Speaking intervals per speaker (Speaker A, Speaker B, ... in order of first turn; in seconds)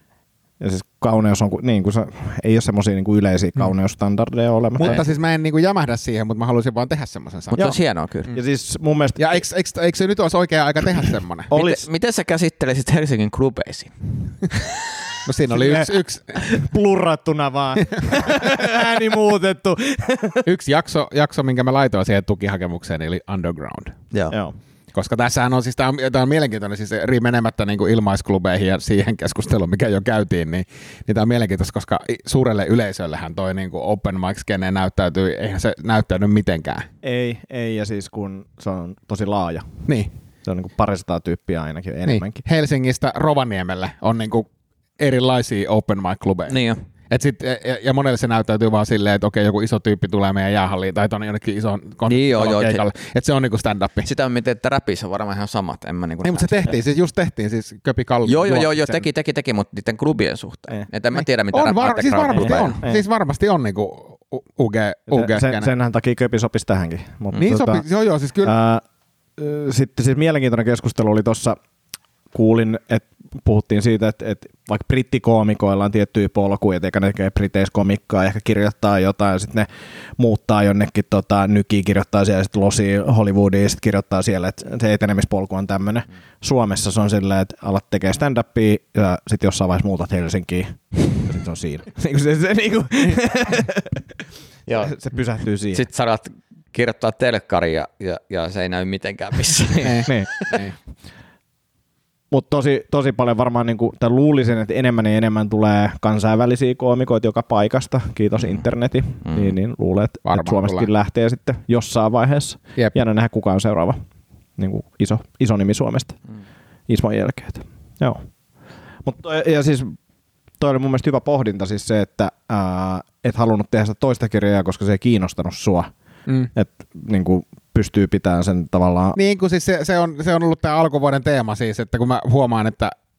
Speaker A: 0.6-5.0, 7.5-7.8, 8.3-9.4, 11.5-11.8, 15.5-20.5, 24.3-24.6, 37.0-39.8, 40.4-42.4, 62.4-63.0, 65.1-67.8, 68.4-68.8, 69.4-71.6, 72.3-94.2, 94.8-95.8, 102.3-114.0, 114.6-116.2, 116.9-118.3, 119.0-119.9, 120.6-125.9, 126.5-129.2
Speaker B: 4.8-7.7, 9.2-11.5, 15.2-16.4, 17.8-18.4, 20.4-24.0, 24.9-36.9, 39.9-40.1, 42.1-44.5, 45.0-54.1, 56.2-58.8, 61.5-65.7, 67.3-68.5, 99.8-100.7, 110.3-110.9, 129.2-133.0
Speaker C: 7.5-8.3, 11.5-13.9, 46.5-46.8, 52.0-52.9, 54.0-56.8, 58.3-62.8, 94.7-95.0, 95.7-100.6, 109.2-109.5